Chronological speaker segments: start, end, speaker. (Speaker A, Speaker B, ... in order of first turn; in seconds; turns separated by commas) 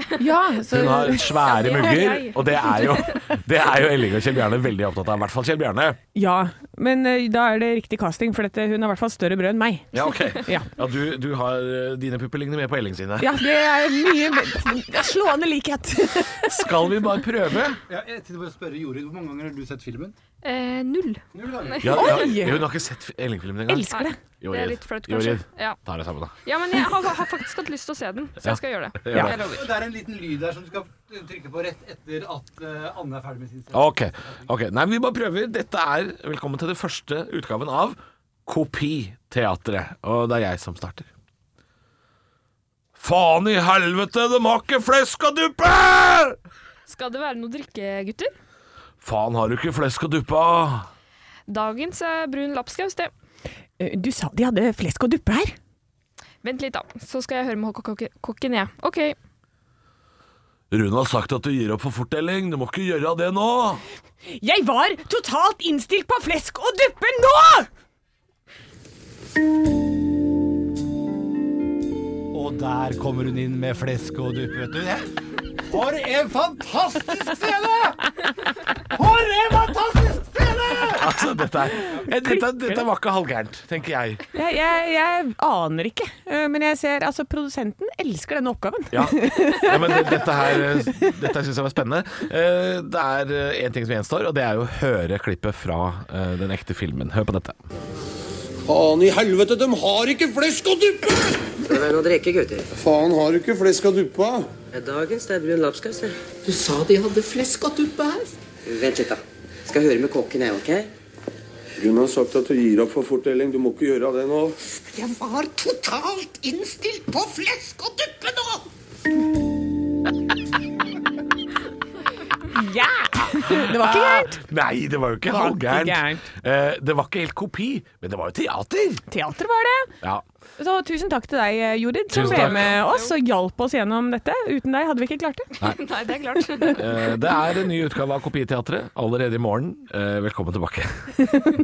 Speaker A: 0.2-2.9, Speaker B: 0.7-6.0, Speaker C: 1.1-3.2, Speaker A: 6.1-10.7, Speaker B: 9.9-13.4, Speaker A: 13.2-16.7, Speaker B: 16.2-17.8, Speaker D: 17.9-20.1, Speaker C: 20.4-22.4, Speaker D: 21.3-21.9, Speaker B: 21.8-26.4, Speaker A: 21.9-22.6, Speaker A: 23.7-24.2, Speaker C: 23.9-25.8, Speaker C: 26.4-29.7, Speaker B: 28.4-29.4, Speaker D: 29.4-34.3, Speaker B: 33.7-41.1, Speaker B: 43.0-46.4, Speaker C: 46.9-48.3, Speaker B: 49.0-50.9, Speaker C: 51.5-53.1, Speaker A: 53.8-55.6, Speaker C: 56.4-59.2, Speaker B: 60.7-63.8, Speaker A: 64.3-67.7, Speaker D: 72.3-75.1, Speaker D: 75.7-78.1, Speaker D: 78.9-81.1, Speaker B: 81.0-84.2, Speaker A: 82.1-82.8, Speaker A: 84.3-90.7, Speaker B: 88.9-97.6, Speaker E: 98.7-101.0, Speaker F: 101.6-102.7, Speaker E: 102.8-104.5, Speaker F: 104.7-106.2, Speaker G: 106.4-108.3, Speaker F: 108.7-110.9, Speaker E: 111.8-114.5, Speaker G: 114.9-118.6, Speaker A: 122.5-124.4, Speaker B: 123.1-129.0, Speaker A: 125.3-126.2, Speaker A: 129.1-129.9, Speaker A: 130.6-135.5, Speaker B: 132.1-132.8, Speaker C: 132.1-133.1, Speaker C: 135.6-137.1, Speaker B: 136.7-141.2